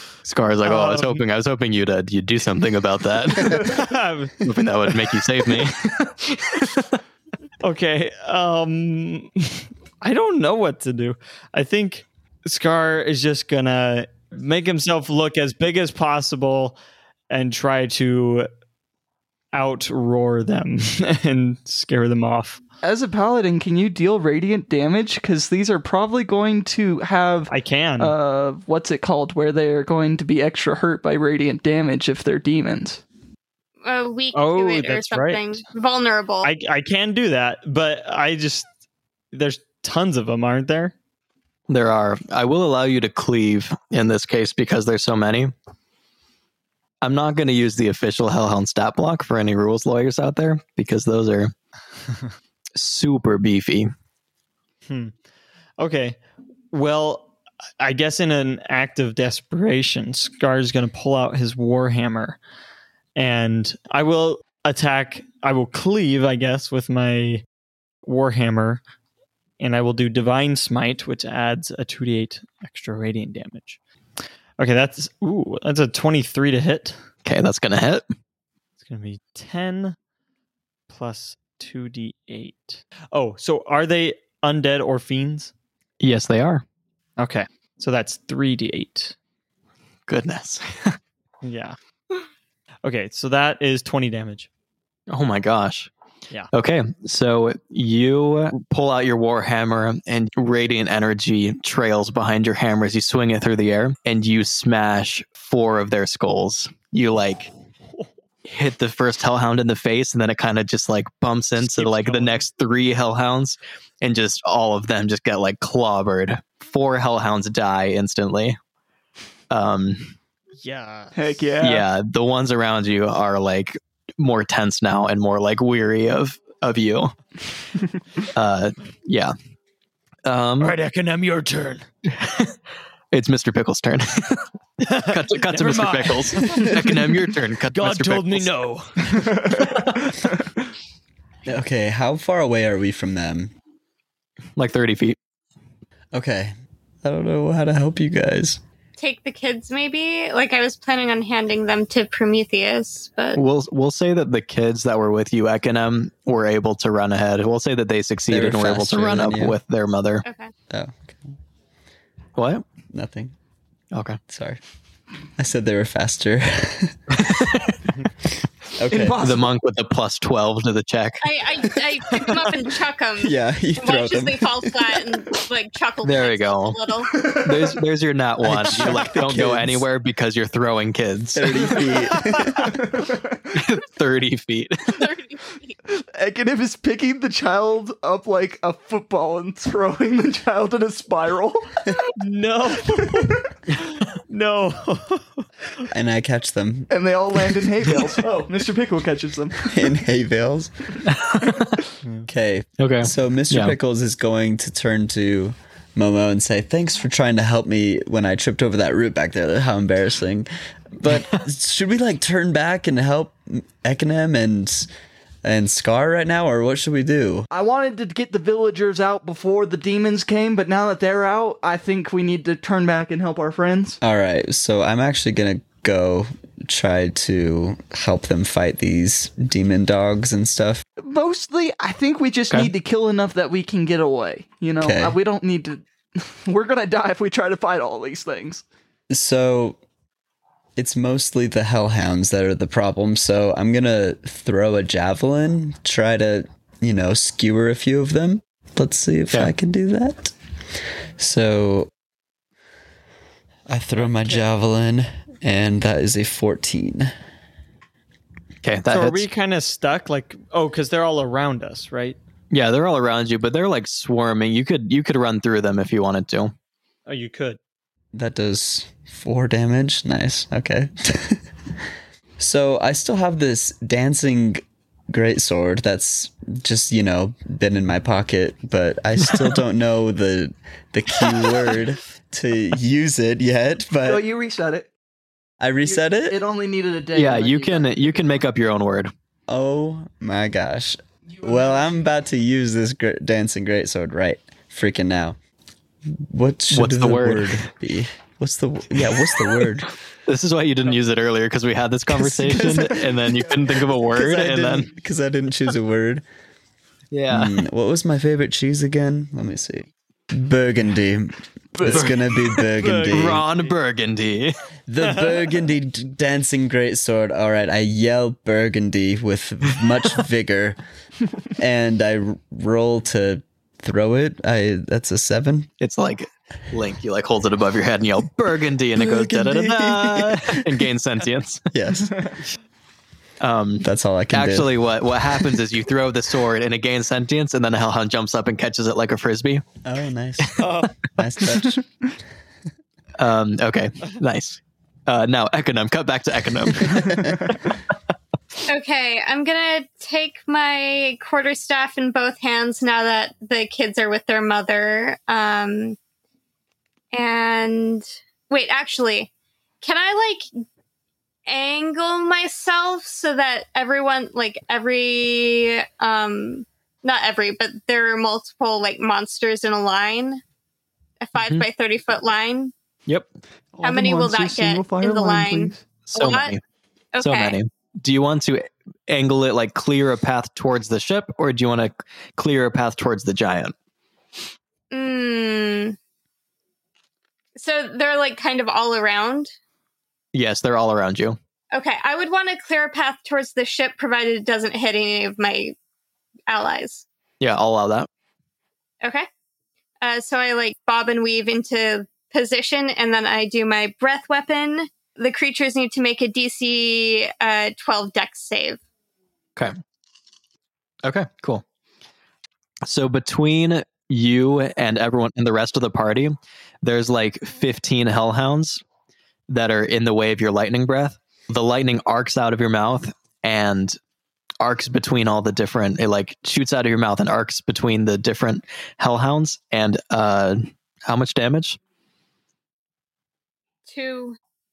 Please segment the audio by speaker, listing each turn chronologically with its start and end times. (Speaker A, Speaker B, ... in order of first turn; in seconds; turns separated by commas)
Speaker A: 0.2-3.7, Speaker B: 0.6-1.2, Speaker B: 3.6-4.4, Speaker A: 4.4-6.1, Speaker B: 7.6-16.8, Speaker B: 17.3-18.5, Speaker B: 19.5-22.6, Speaker C: 22.8-33.0, Speaker B: 27.5-28.1, Speaker D: 33.8-36.5, Speaker B: 34.3-35.6, Speaker B: 36.4-38.7, Speaker B: 39.3-40.9, Speaker A: 41.7-45.5, Speaker A: 47.0-51.5, Speaker A: 52.8-53.9, Speaker B: 55.8-56.2, Speaker B: 56.7-57.3, Speaker B: 57.8-62.4, Speaker B: 63.2-67.5, Speaker B: 68.1-68.8, Speaker B: 69.6-73.8, Speaker B: 74.6-77.0, Speaker A: 77.2-78.0, Speaker B: 78.8-80.0, Speaker B: 80.9-85.5, Speaker A: 86.0-86.6, Speaker B: 87.2-89.2, Speaker A: 90.1-91.0, Speaker B: 91.4-91.8, Speaker B: 92.8-94.5, Speaker A: 95.1-95.9, Speaker A: 96.5-107.5, Speaker A: 108.5-118.6, Speaker B: 111.6-112.5, Speaker A: 119.5-120.2, Speaker B: 120.6-121.4, Speaker C: 121.2-121.9, Speaker A: 121.6-127.1, Speaker A: 128.3-129.3, Speaker A: 130.2-130.8, Speaker B: 130.6-131.9, Speaker A: 132.1-132.5, Speaker A: 133.1-138.5, Speaker B: 134.8-136.9, Speaker B: 137.7-139.8, Speaker C: 139.2-140.2, Speaker E: 141.5-143.5, Speaker A: 144.6-145.2, Speaker E: 146.1-148.6, Speaker D: 149.0-153.4, Speaker A: 153.3-160.2, Speaker E: 158.3-159.6, Speaker D: 160.2-160.5, Speaker E: 160.7-161.3, Speaker A: 162.4-162.6, Speaker E: 162.9-163.3, Speaker A: 163.9-164.2, Speaker E: 164.3-164.6, Speaker E: 165.4-167.0, Speaker A: 167.1-167.8, Speaker E: 168.8-169.3, Speaker C: 168.9-169.5, Speaker A: 169.2-171.2, Speaker D: 171.2-177.2, Speaker E: 173.2-174.9, Speaker A: 176.0-181.7, Speaker C: 177.1-177.8, Speaker E: 178.4-179.9, Speaker E: 181.3-182.7, Speaker C: 182.6-183.6, Speaker A: 183.5-184.9, Speaker D: 184.9-185.8, Speaker C: 185.9-192.0, Speaker B: 192.2-195.9, Speaker C: 192.9-193.5, Speaker E: 195.9-196.9, Speaker C: 196.9-199.9, Speaker E: 199.7-200.7, Speaker A: 201.1-201.8, Speaker E: 202.3-214.9, Speaker A: 202.8-203.8, Speaker E: 215.4-217.5, Speaker C: 217.5-224.0, Speaker E: 224.0-230.8, Speaker C: 231.0-238.6, Speaker E: 234.8-235.2, Speaker E: 239.1-239.8, Speaker E: 240.8-250.3, Speaker E: 251.2-251.9, Speaker E: 253.7-257.1, Speaker B: 254.0-254.4, Speaker A: 258.6-259.3, Speaker B: 258.9-262.2, Speaker A: 262.5-266.5, Speaker B: 267.1-267.6, Speaker E: 268.1-271.4, Speaker E: 272.4-284.2, Speaker C: 284.1-284.9, Speaker E: 285.6-286.4, Speaker C: 285.9-288.0, Speaker A: 287.1-289.1, Speaker E: 289.5-295.4, Speaker E: 296.1-299.9, Speaker A: 296.7-297.7, Speaker A: 300.3-304.9, Speaker E: 302.1-303.1, Speaker E: 304.1-306.2, Speaker A: 307.1-307.6, Speaker E: 307.3-313.4, Speaker C: 311.8-312.1, Speaker A: 311.8-312.3, Speaker B: 312.8-313.8, Speaker A: 312.9-314.6, Speaker E: 314.9-320.8, Speaker B: 315.0-315.4, Speaker E: 321.6-325.7, Speaker A: 325.8-331.7, Speaker E: 328.9-330.8, Speaker E: 331.7-332.3, Speaker A: 333.4-339.6, Speaker E: 333.8-335.4, Speaker E: 339.8-341.8, Speaker B: 340.6-340.9, Speaker A: 343.2-347.2, Speaker E: 346.9-347.4, Speaker C: 347.1-347.6, Speaker D: 348.7-356.0, Speaker D: 357.1-359.3, Speaker D: 359.8-360.5, Speaker D: 361.5-370.4, Speaker D: 371.2-372.7, Speaker A: 371.4-371.6, Speaker C: 373.8-375.9, Speaker D: 373.8-376.5, Speaker A: 376.1-376.6, Speaker D: 377.1-377.6, Speaker A: 377.2-383.7, Speaker D: 384.9-386.0, Speaker D: 387.6-389.5, Speaker A: 390.3-391.4, Speaker D: 391.7-395.8, Speaker D: 396.5-397.1, Speaker A: 397.4-398.1, Speaker D: 399.0-399.3, Speaker D: 400.0-408.8, Speaker A: 411.0-411.6, Speaker A: 412.8-418.8, Speaker A: 419.5-424.0, Speaker A: 424.6-431.8, Speaker D: 433.9-434.4